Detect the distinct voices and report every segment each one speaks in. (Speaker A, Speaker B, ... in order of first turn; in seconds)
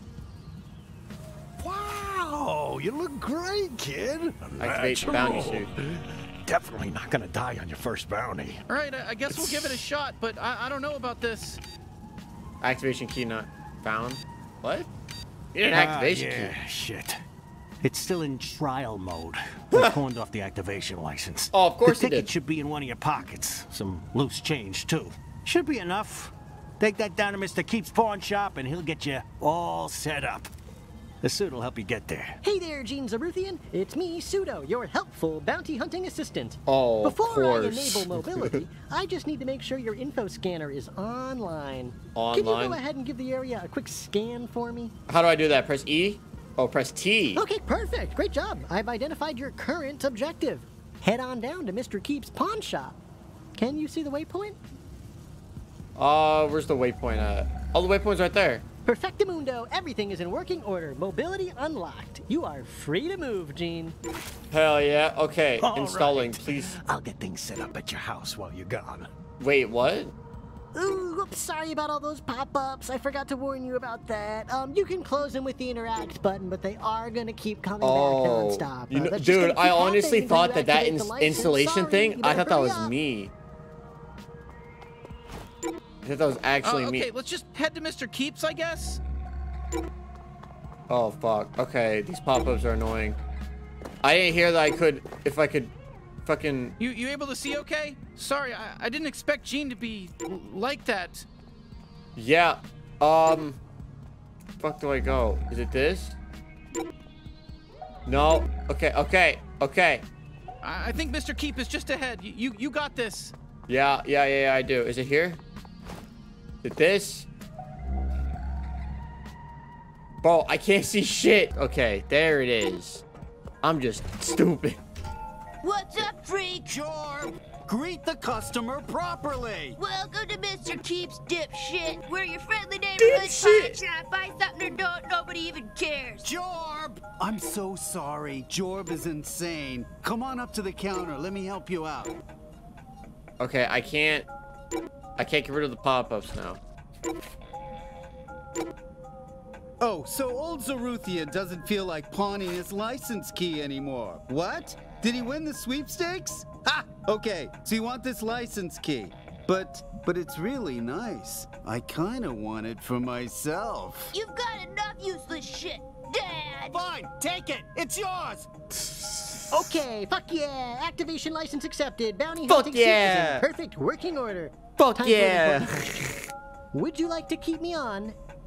Speaker A: 1.6-8.6, 9.3-9.8, 15.7-17.2, 17.8-30.5, 31.2-32.4, 65.6-69.1
Speaker B: 4.6-5.7, 12.6-14.9, 15.5-16.5, 19.7-20.0, 21.5-22.3, 36.6-38.6, 42.1-42.8, 45.1-47.4, 56.0-58.6, 64.5-66.8, 69.4-70.1, 77.8-83.3, 86.0-87.1, 90.9-93.2, 94.0-95.7, 96.2-96.7, 102.2-103.6, 104.6-106.2, 108.1-110.0, 113.7-115.4, 116.6-117.3, 120.2-123.0, 123.6-124.8, 133.0-133.8, 143.4-144.3, 145.2-146.6, 168.9-169.5, 172.5-173.4, 174.8-176.1
Speaker C: 8.7-11.6, 86.6-89.0, 96.8-101.2, 110.6-113.3
Speaker D: 32.4-44.9, 47.3-53.0, 53.5-54.6, 58.8-64.0, 70.7-82.9, 169.5-176.1, 176.7-178.2
Speaker E: 125.6-126.8, 129.8-136.3, 164.1-166.8
Speaker F: 126.9-129.8, 136.2-142.2, 149.8-164.1, 166.7-168.5